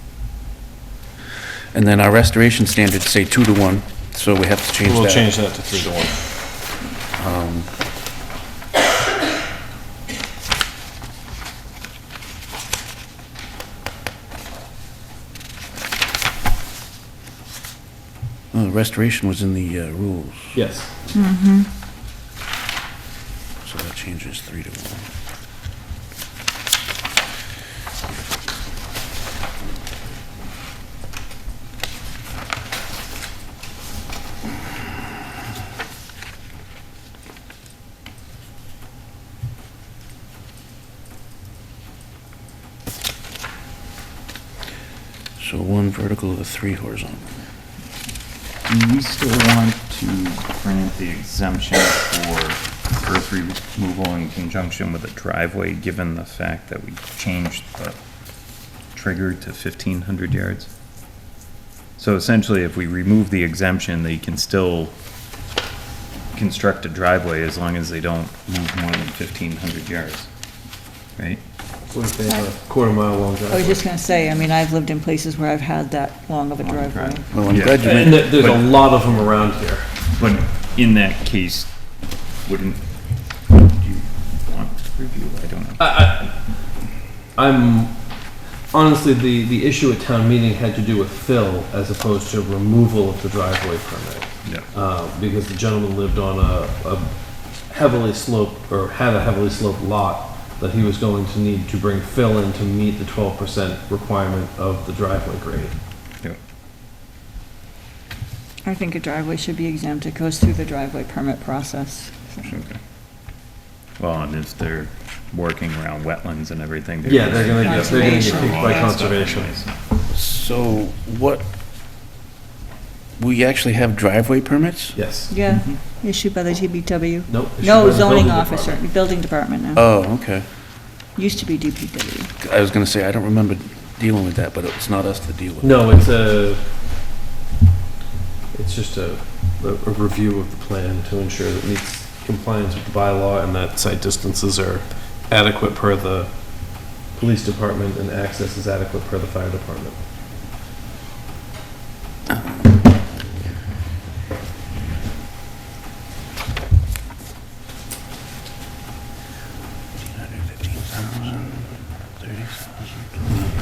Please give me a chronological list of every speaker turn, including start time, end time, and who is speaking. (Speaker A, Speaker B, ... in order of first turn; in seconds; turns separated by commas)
Speaker A: 1.7-5.3, Speaker B: 4.8-6.2, Speaker A: 7.2-7.7, Speaker A: 18.5-20.6, Speaker B: 20.5-20.9, Speaker C: 21.1-21.7, Speaker A: 23.6-25.1, Speaker A: 45.4-47.3, Speaker D: 48.7-58.0, Speaker D: 58.9-60.7, Speaker D: 62.0-64.9, Speaker D: 66.3-70.3, Speaker D: 71.2-71.4, Speaker B: 71.9-73.8, Speaker C: 73.5-77.2, Speaker D: 76.6-81.7, Speaker A: 77.3-78.4, Speaker B: 77.8-79.9, Speaker D: 82.4-86.2, Speaker B: 85.8-86.8, Speaker B: 87.3-105.7, Speaker D: 94.4-94.7, Speaker C: 108.6-112.5, Speaker D: 112.4-112.8, Speaker D: 114.0-119.8, Speaker B: 117.0-119.6, Speaker C: 117.6-119.1, Speaker A: 120.1-121.5, Speaker A: 123.2-125.0, Speaker B: 124.9-125.3, Speaker C: 125.3-129.9, Speaker D: 125.5-125.8, Speaker B: 127.3-128.8, Speaker A: 129.7-130.4, Speaker C: 131.1-132.3, Speaker A: 132.4-135.8, Speaker B: 135.6-136.6, Speaker B: 138.5-150.0, Speaker A: 160.0-163.3